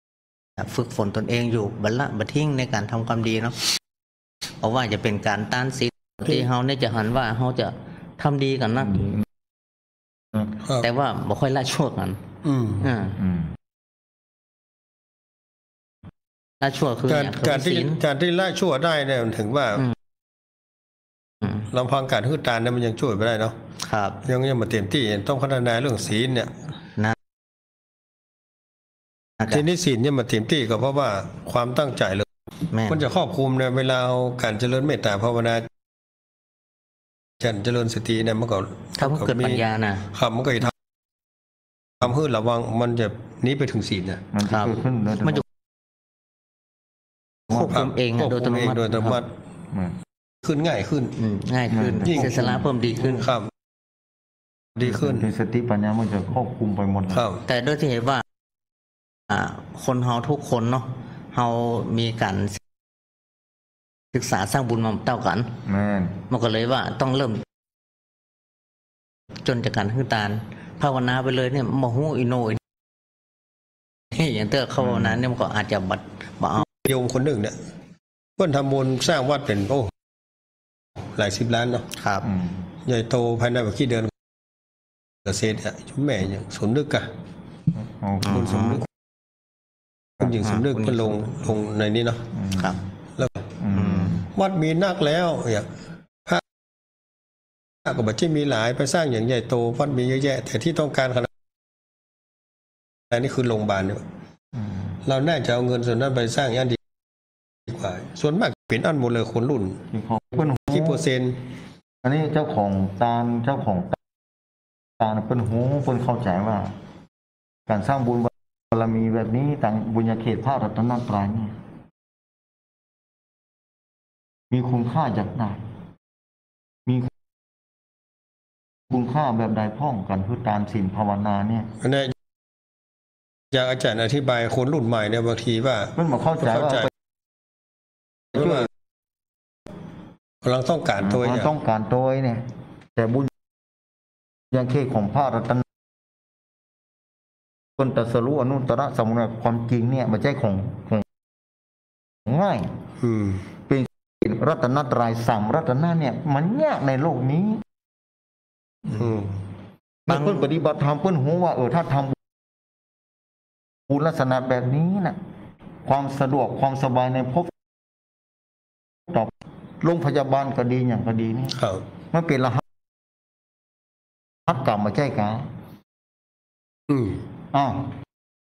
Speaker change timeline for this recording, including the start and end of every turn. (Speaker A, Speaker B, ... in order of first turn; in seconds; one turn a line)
Speaker A: 0.6-3.7
Speaker A: 4.6-9.1
Speaker B: 10.6-10.9
Speaker A: 10.8-12.2
Speaker B: 12.4-12.9
Speaker A: 12.8-13.2
Speaker C: 13.2-13.5
Speaker A: 16.6-18.0
Speaker B: 17.1-19.9
Speaker B: 21.7-23.6
Speaker A: 23.8-24.2
Speaker B: 24.2-26.5
Speaker B: 29.4-32.2
Speaker A: 32.7-33.0
Speaker B: 32.9-35.7
Speaker B: 37.4-40.7
Speaker A: 39.0-40.1
Speaker B: 42.0-44.2
Speaker C: 44.3-45.4
Speaker A: 44.5-44.7
Speaker A: 47.5-49.2
Speaker B: 47.5-49.3
Speaker B: 50.4-51.1
Speaker A: 51.2-53.3
Speaker C: 51.7-52.6
Speaker B: 52.1-53.5
Speaker B: 54.8-55.3
Speaker C: 54.8-57.2
Speaker B: 57.1-57.4
Speaker A: 57.5-58.2
Speaker A: 59.3-62.6
Speaker A: 64.1-65.5
Speaker C: 65.7-66.2
Speaker A: 66.3-67.4
Speaker A: 69.4-72.6
Speaker A: 74.1-76.6
Speaker C: 74.9-75.2
Speaker B: 76.7-77.5
Speaker B: 78.4-79.9
Speaker B: 81.0-81.9
Speaker A: 82.0-82.3
Speaker C: 82.2-82.5
Speaker B: 82.8-84.1
Speaker B: 85.2-87.1
Speaker C: 87.8-88.7
Speaker A: 88.2-88.8
Speaker B: 88.3-88.8
Speaker B: 90.2-92.2
Speaker A: 90.4-91.3
Speaker C: 92.3-92.8
Speaker A: 92.5-92.8
Speaker B: 93.2-93.4
Speaker C: 93.6-94.3
Speaker A: 93.7-94.2
Speaker B: 94.3-96.4
Speaker B: 97.8-101.3
Speaker B: 103.1-104.0
Speaker B: 105.0-106.8
Speaker B: 107.7-109.8
Speaker C: 109.9-111.0
Speaker B: 110.7-111.4
Speaker C: 112.0-114.0
Speaker C: 115.0-116.7
Speaker C: 117.7-121.5
Speaker C: 124.5-125.6
Speaker C: 126.8-127.1
Speaker C: 128.9-131.7
Speaker B: 131.8-132.1
Speaker B: 133.5-136.9
Speaker C: 135.9-136.9
Speaker B: 138.3-138.7
Speaker B: 140.4-141.5
Speaker C: 141.0-143.3
Speaker C: 144.5-145.6
Speaker C: 147.8-151.0
Speaker C: 152.2-152.7
Speaker B: 153.0-153.4
Speaker C: 153.7-157.6
Speaker B: 158.9-159.3
Speaker C: 160.1-162.2
Speaker A: 160.1-160.4
Speaker C: 163.9-165.2
Speaker C: 165.8-167.5
Speaker C: 169.1-171.6
Speaker B: 171.6-171.8
Speaker C: 172.1-172.6
Speaker C: 174.5-175.5
Speaker B: 176.9-177.2
Speaker C: 177.5-177.9